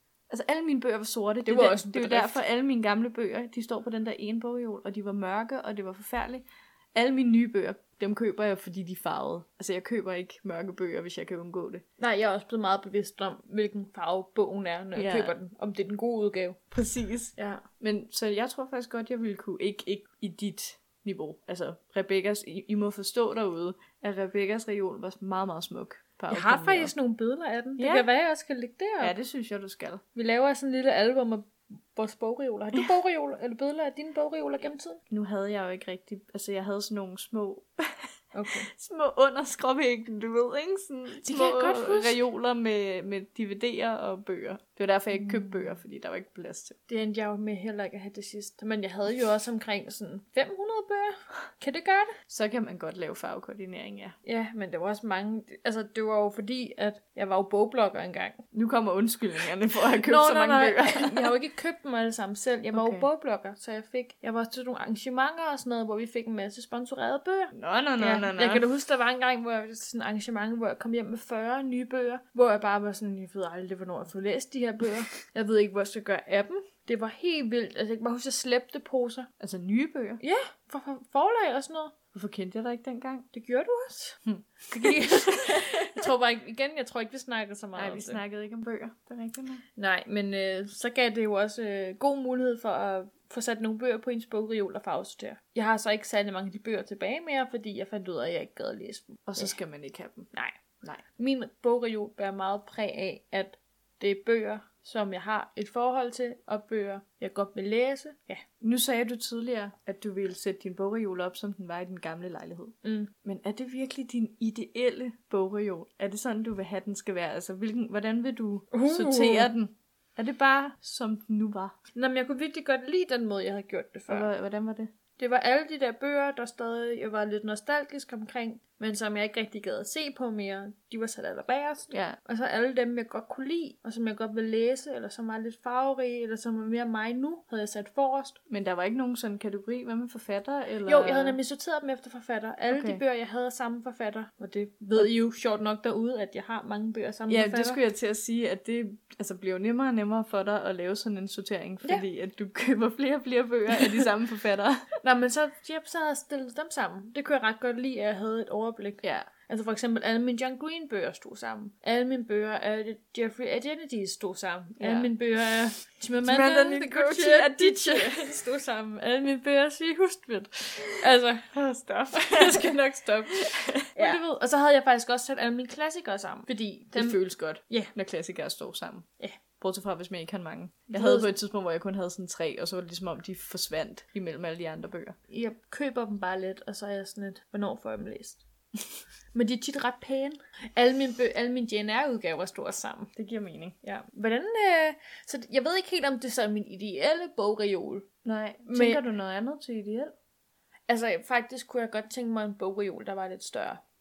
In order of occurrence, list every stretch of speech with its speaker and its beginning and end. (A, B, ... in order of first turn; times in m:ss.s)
0:00.3-0:11.8 A
0:01.4-0:02.4 B
0:12.0-0:16.6 B
0:14.9-0:15.3 A
0:16.7-0:26.9 A
0:17.4-0:17.6 B
0:26.3-0:29.1 B
0:27.8-0:28.1 A
0:29.0-0:30.0 A
0:30.1-0:35.0 B
0:35.1-0:46.8 A
0:38.3-0:38.7 B
0:41.2-0:42.2 B
0:46.9-0:52.1 B
0:52.3-0:54.2 A
0:54.2-0:58.4 B
0:58.5-1:01.4 A
1:00.0-1:19.3 B
1:02.7-1:03.0 A
1:07.5-1:08.6 A
1:19.4-1:20.2 A
1:20.2-1:21.9 B
1:22.1-1:23.3 A
1:23.3-1:28.2 B
1:24.2-1:26.1 A
1:27.8-1:29.6 A
1:29.8-1:39.5 B
1:39.3-1:40.3 A
1:40.3-1:40.6 B
1:41.2-1:48.4 B
1:48.6-2:01.7 A
1:52.8-1:53.1 B
1:58.7-1:59.5 B
2:01.9-2:04.3 B
2:04.1-2:04.9 A
2:05.2-2:18.4 B
2:11.9-2:12.2 A
2:18.5-2:21.4 A
2:20.8-2:27.8 B
2:22.7-2:23.0 A
2:27.3-2:34.9 A
2:35.0-2:57.9 B
2:39.0-2:39.3 A
2:44.8-2:45.1 A
2:46.2-2:48.4 A
2:51.5-2:52.8 A
2:53.3-2:54.2 A
2:56.9-2:59.0 A
2:59.6-3:05.2 A
3:00.9-3:01.3 B
3:05.3-3:08.4 B
3:09.3-3:13.1 B
3:13.1-3:13.8 A
3:13.8-3:18.1 B
3:18.2-3:20.1 A
3:18.7-3:19.0 B
3:20.9-3:23.8 B